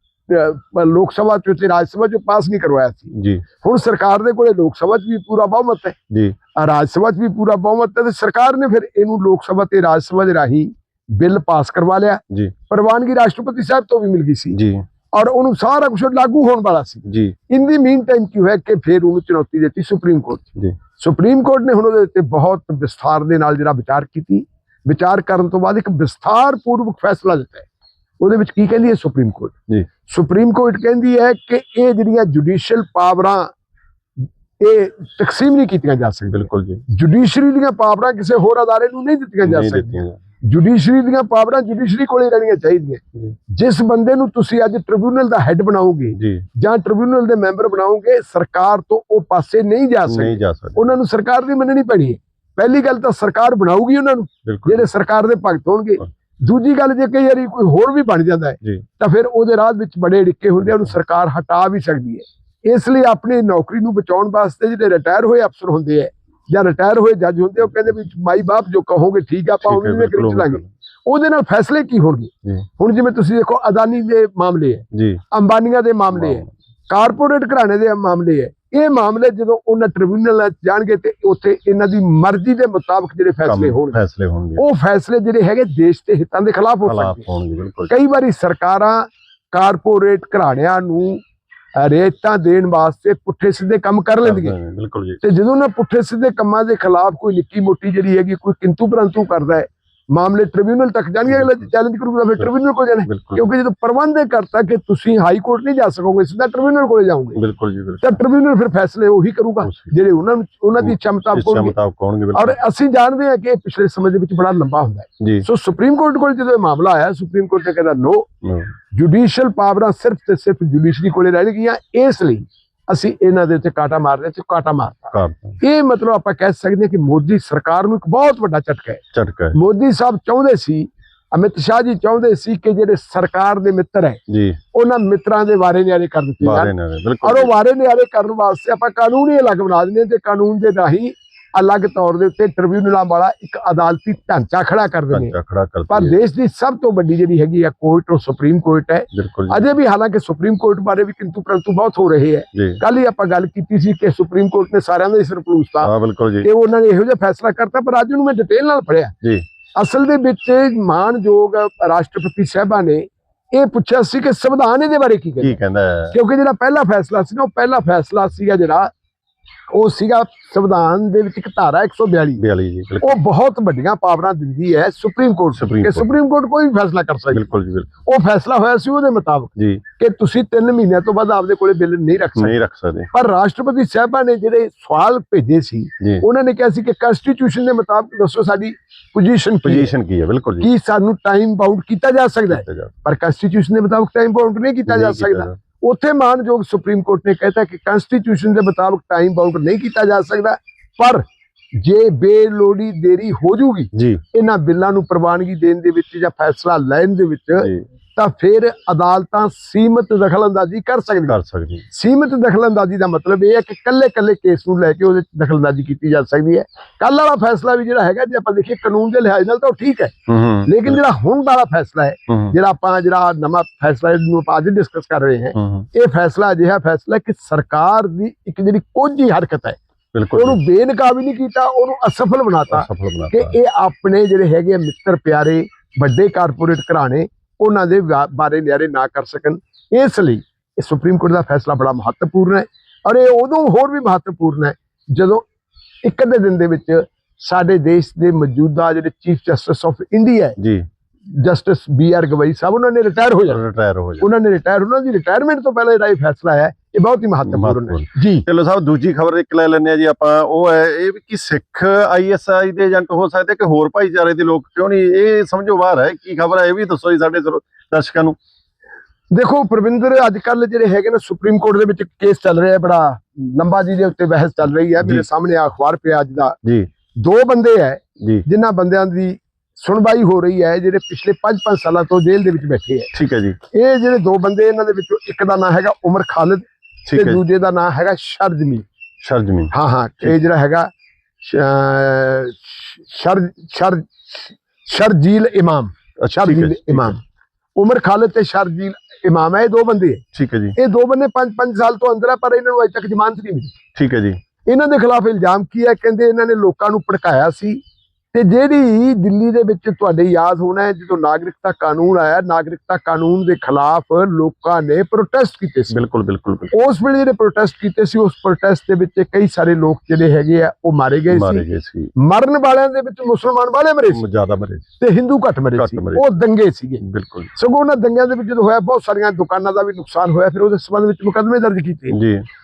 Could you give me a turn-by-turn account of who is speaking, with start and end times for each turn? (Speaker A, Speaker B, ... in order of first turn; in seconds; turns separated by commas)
Speaker A: 0.3-6.0, Speaker B: 3.1-3.4, Speaker A: 6.6-14.6, Speaker B: 14.5-14.8, Speaker A: 15.1-20.5, Speaker B: 17.1-17.4, Speaker A: 21.0-27.7, Speaker A: 28.2-29.5, Speaker A: 30.1-33.5, Speaker A: 34.6-84.0, Speaker B: 36.3-36.8, Speaker B: 39.4-40.2, Speaker B: 46.1-46.5, Speaker B: 50.1-50.9, Speaker B: 54.5-54.9, Speaker B: 69.6-70.7, Speaker B: 74.9-75.2, Speaker B: 76.1-76.5, Speaker B: 83.5-84.6, Speaker A: 84.6-87.3, Speaker B: 86.9-87.9, Speaker A: 87.9-91.2, Speaker A: 91.8-94.6, Speaker B: 94.2-95.2, Speaker A: 95.2-107.4, Speaker B: 103.1-103.4, Speaker B: 107.4-108.2, Speaker A: 108.0-111.8, Speaker B: 109.6-109.9, Speaker B: 110.8-112.6, Speaker A: 112.3-118.3, Speaker B: 115.2-115.5, Speaker A: 118.9-129.0, Speaker B: 125.1-125.6, Speaker B: 129.1-129.6, Speaker A: 129.5-134.2, Speaker B: 134.3-134.6, Speaker A: 134.7-145.3, Speaker B: 136.4-137.5, Speaker B: 145.1-146.2, Speaker A: 145.9-159.1, Speaker B: 149.1-149.7, Speaker B: 152.5-152.8, Speaker B: 155.8-156.5, Speaker A: 159.8-165.6, Speaker B: 165.4-166.2, Speaker A: 166.1-168.9, Speaker A: 169.7-172.4, Speaker B: 172.4-173.2, Speaker A: 173.0-177.5, Speaker B: 175.6-176.1, Speaker B: 177.3-177.9, Speaker A: 178.1-182.6, Speaker B: 179.6-179.8, Speaker B: 182.4-183.1, Speaker A: 183.1-189.9, Speaker B: 189.6-190.7, Speaker A: 190.6-201.2, Speaker B: 192.5-192.9, Speaker B: 194.9-195.6, Speaker A: 201.8-211.4, Speaker B: 203.9-204.2, Speaker B: 207.6-207.8, Speaker B: 211.3-211.8, Speaker A: 211.9-229.8, Speaker B: 220.3-221.0, Speaker B: 222.3-222.5, Speaker B: 225.6-225.9, Speaker B: 230.1-230.6, Speaker A: 230.3-245.5, Speaker B: 232.7-233.6, Speaker A: 246.0-250.6, Speaker B: 250.6-250.9, Speaker A: 251.3-253.6, Speaker B: 253.5-254.3, Speaker A: 254.2-258.4, Speaker B: 257.4-268.4, Speaker A: 269.3-276.6, Speaker B: 275.0-275.3, Speaker A: 277.2-283.1, Speaker B: 283.1-283.6, Speaker A: 283.7-288.9, Speaker B: 287.1-287.4, Speaker B: 289.2-290.4, Speaker A: 289.7-290.9, Speaker A: 291.4-297.2, Speaker B: 296.2-297.2, Speaker A: 297.8-300.2, Speaker B: 300.3-300.8, Speaker A: 300.8-303.8, Speaker B: 304.0-304.4, Speaker A: 304.7-307.8, Speaker A: 308.3-316.0, Speaker B: 315.9-316.7, Speaker A: 316.7-321.6, Speaker B: 321.3-322.1, Speaker A: 322.2-324.2, Speaker B: 324.1-324.9, Speaker A: 325.0-327.0, Speaker B: 325.8-326.2, Speaker B: 327.0-327.5, Speaker A: 327.5-332.2, Speaker B: 332.1-332.4